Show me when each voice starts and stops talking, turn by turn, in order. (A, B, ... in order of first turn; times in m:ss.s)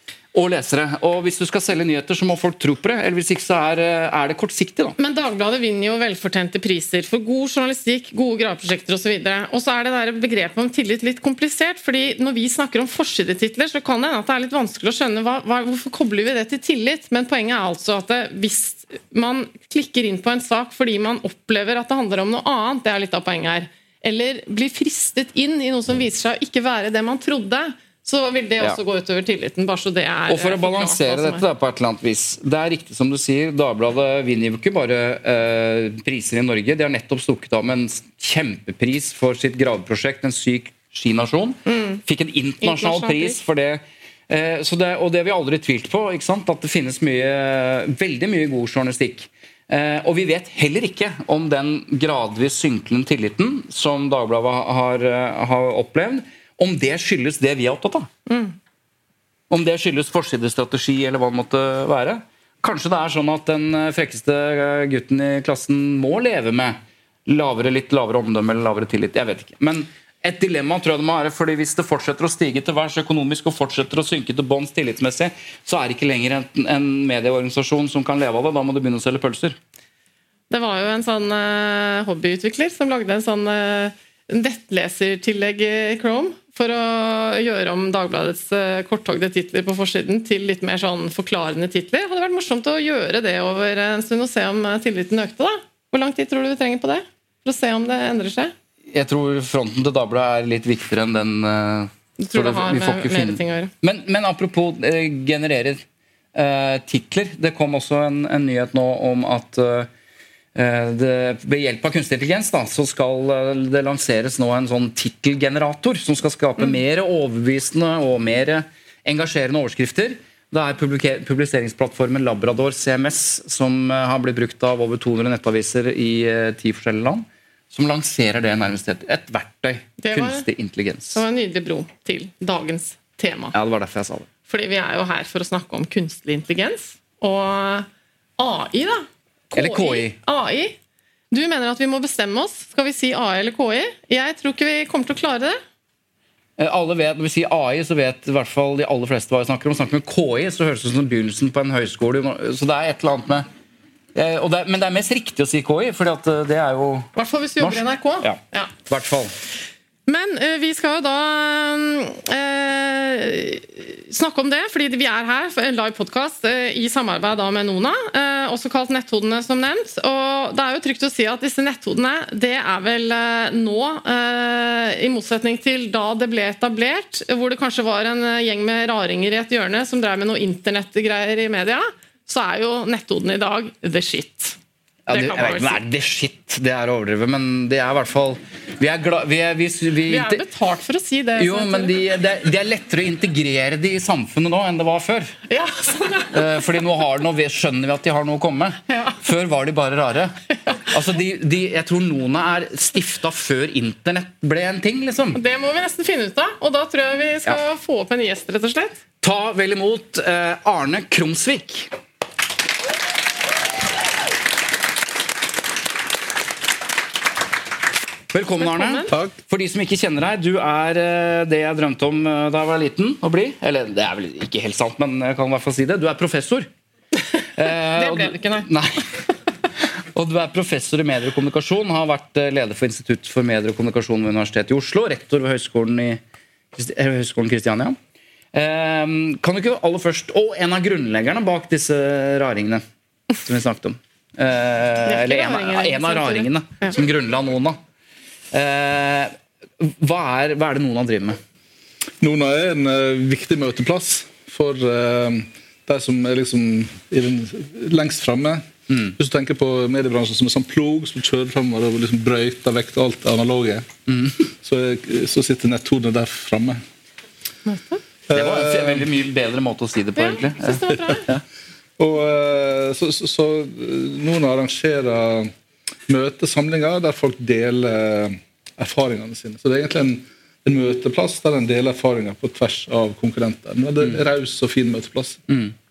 0:00.3-0:05.0 A
0:05.0-0:31.4 B
0:30.3-0:58.1 A
0:41.7-0:42.0 B
0:42.6-0:43.4 B
0:58.3-0:58.6 B
0:59.5-1:19.6 A
1:20.5-1:38.5 B
1:38.9-1:45.8 A
1:42.2-1:43.7 B
1:46.3-1:49.9 A
1:50.5-2:11.2 A
2:10.0-2:10.4 B
2:11.1-2:13.5 B
2:13.5-2:14.3 A
2:14.5-2:20.8 B
2:19.6-2:20.2 A
2:21.3-2:25.6 B
2:26.6-2:33.4 A
2:34.1-2:39.3 A
2:37.2-2:38.7 B
2:40.1-3:04.6 B
3:05.1-3:10.4 A
3:05.1-3:05.8 B
3:10.1-3:11.9 B
3:11.4-3:15.3 A
3:15.5-3:16.7 B
3:16.3-3:25.4 A
3:18.9-3:19.2 B
3:25.3-3:29.0 B
3:29.2-3:31.9 A
3:38.3-3:46.7 A
3:38.6-3:39.1 B
3:47.6-3:49.0 A
3:47.9-3:48.7 B
3:50.1-3:56.2 A
3:56.7-3:58.0 A
3:58.5-4:02.8 A
4:03.4-4:07.8 A
4:05.0-4:06.9 B
4:08.5-4:11.4 A
4:12.2-4:23.9 C
4:18.9-4:19.1 A
4:24.1-4:24.4 A
4:24.5-4:26.8 C
4:27.6-4:28.0 B
4:28.3-4:29.1 C
4:28.3-4:31.4 A
4:30.1-4:31.3 B
4:32.0-4:35.5 C
4:36.1-4:45.4 C
4:45.5-4:45.7 A